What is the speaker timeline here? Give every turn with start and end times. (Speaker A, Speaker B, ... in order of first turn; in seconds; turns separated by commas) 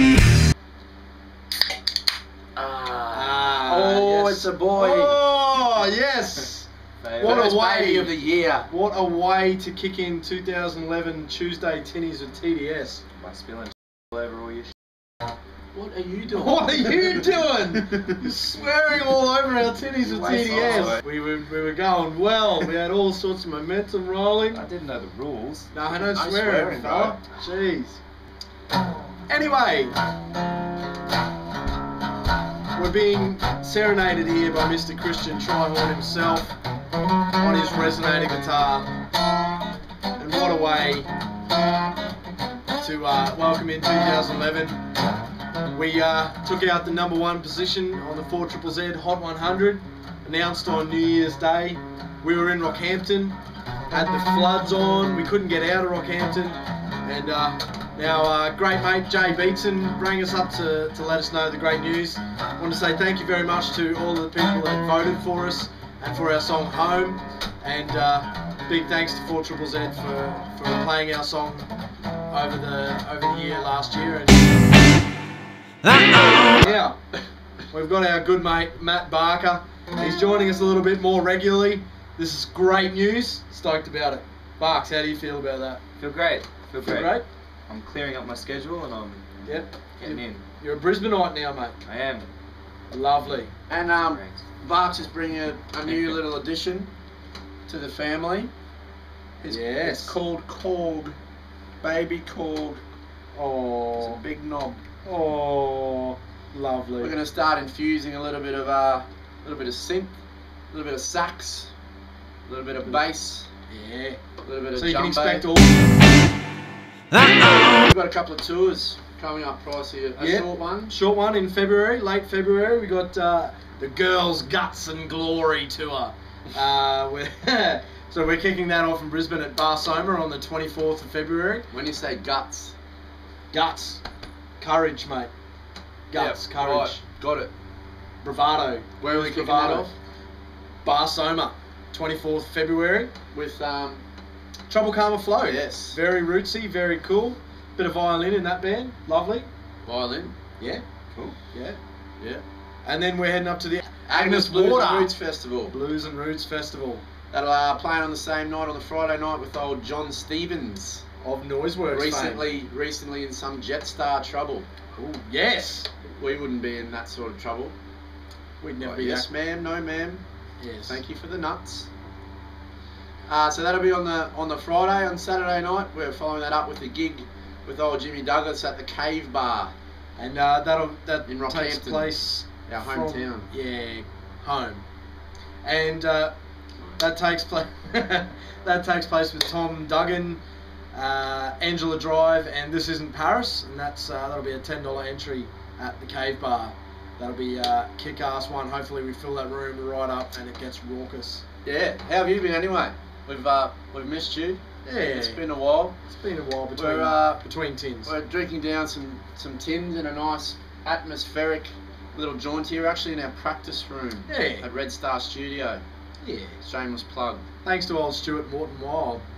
Speaker A: 2.6-5.2, Speaker B: 3.1-8.1, Speaker C: 7.0-7.5, Speaker A: 7.2-8.7, Speaker B: 8.7-13.0, Speaker C: 13.1-14.7, Speaker A: 15.7-18.0, Speaker B: 16.3-24.7, Speaker C: 20.0-21.1, Speaker C: 24.5-25.7, Speaker B: 25.7-28.0, Speaker A: 25.9-27.2, Speaker B: 29.3-29.9, Speaker B: 32.7-36.5, Speaker B: 37.4-38.9, Speaker B: 40.2-41.1, Speaker B: 42.8-44.8, Speaker B: 45.7-53.4, Speaker B: 53.9-71.7, Speaker B: 72.3-74.5, Speaker B: 76.6-77.0, Speaker B: 77.7-85.8, Speaker C: 86.0-90.4, Speaker B: 86.8-87.2, Speaker B: 89.4-91.8, Speaker C: 91.8-92.3, Speaker B: 92.9-93.5, Speaker A: 93.7-96.9, Speaker C: 94.0-94.4, Speaker C: 95.9-96.2, Speaker A: 97.7-98.5, Speaker A: 99.4-101.1, Speaker B: 99.4-100.2, Speaker A: 101.8-102.8, Speaker B: 103.3-104.2, Speaker A: 104.0-104.8, Speaker B: 105.0-107.2, Speaker A: 107.0-110.2, Speaker A: 110.7-111.7, Speaker A: 112.4-113.5, Speaker B: 113.7-114.2, Speaker A: 114.4-115.5, Speaker B: 114.7-115.8, Speaker A: 117.3-121.0, Speaker B: 120.2-131.7, Speaker A: 131.7-132.8, Speaker B: 133.5-134.0, Speaker B: 134.6-135.3, Speaker B: 136.1-137.0, Speaker A: 136.1-137.5, Speaker B: 138.2-139.9, Speaker A: 139.0-139.9, Speaker B: 140.8-143.1, Speaker A: 143.3-144.0, Speaker B: 144.7-149.5, Speaker A: 145.4-146.0, Speaker A: 149.8-150.4, Speaker B: 151.5-151.8, Speaker B: 152.8-155.1, Speaker A: 154.1-155.8, Speaker B: 155.7-157.0, Speaker A: 157.3-161.0, Speaker B: 161.2-162.6, Speaker A: 161.9-164.7, Speaker B: 165.0-165.9, Speaker A: 166.2-167.8, Speaker B: 168.6-169.3, Speaker A: 168.8-170.2, Speaker B: 170.6-171.0, Speaker A: 170.9-171.9, Speaker A: 173.3-179.7, Speaker B: 180.2-184.8, Speaker A: 181.3-182.1, Speaker A: 182.7-183.5, Speaker B: 185.6-186.3, Speaker B: 187.0-190.4, Speaker B: 190.9-201.4, Speaker A: 201.6-206.0, Speaker B: 204.8-205.4, Speaker B: 206.1-208.1, Speaker A: 206.8-207.4, Speaker A: 208.1-215.8, Speaker B: 214.3-214.7, Speaker B: 216.2-216.6, Speaker A: 216.6-217.4, Speaker B: 217.6-219.2